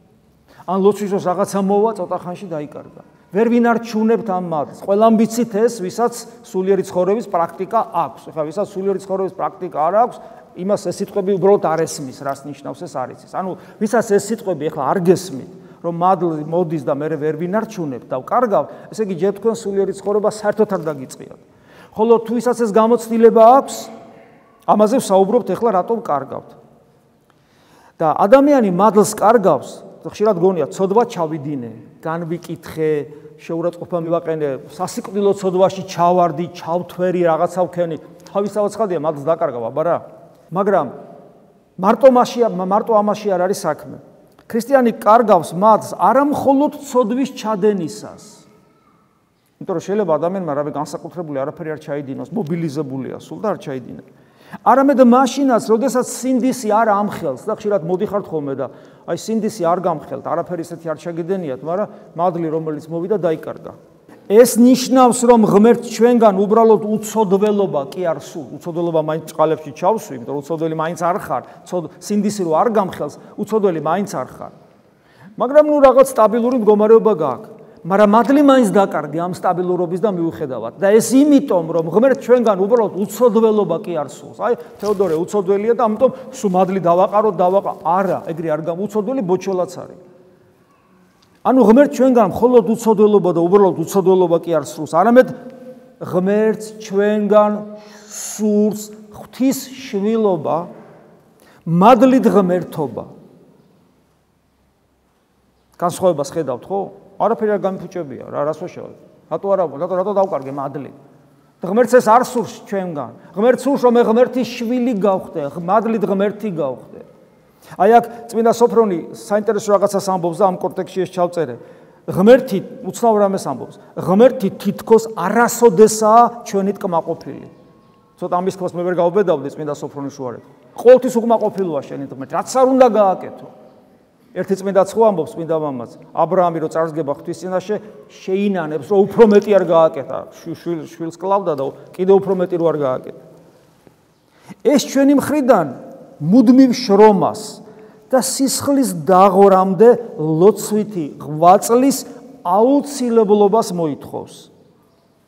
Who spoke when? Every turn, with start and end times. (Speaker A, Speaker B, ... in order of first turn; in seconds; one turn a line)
Speaker A: 0.7-23.9
Speaker A: 24.7-26.6
Speaker A: 28.0-40.9
Speaker A: 41.8-48.4
Speaker A: 49.6-54.0
Speaker A: 54.6-63.8
Speaker A: 64.3-74.5
Speaker A: 75.4-90.0
Speaker A: 91.4-95.4
Speaker A: 96.0-100.7
Speaker A: 101.6-103.1
Speaker A: 105.8-110.9
Speaker A: 111.6-117.0
Speaker A: 117.8-127.5
Speaker A: 128.2-133.5
Speaker A: 134.3-143.2
Speaker A: 144.6-154.5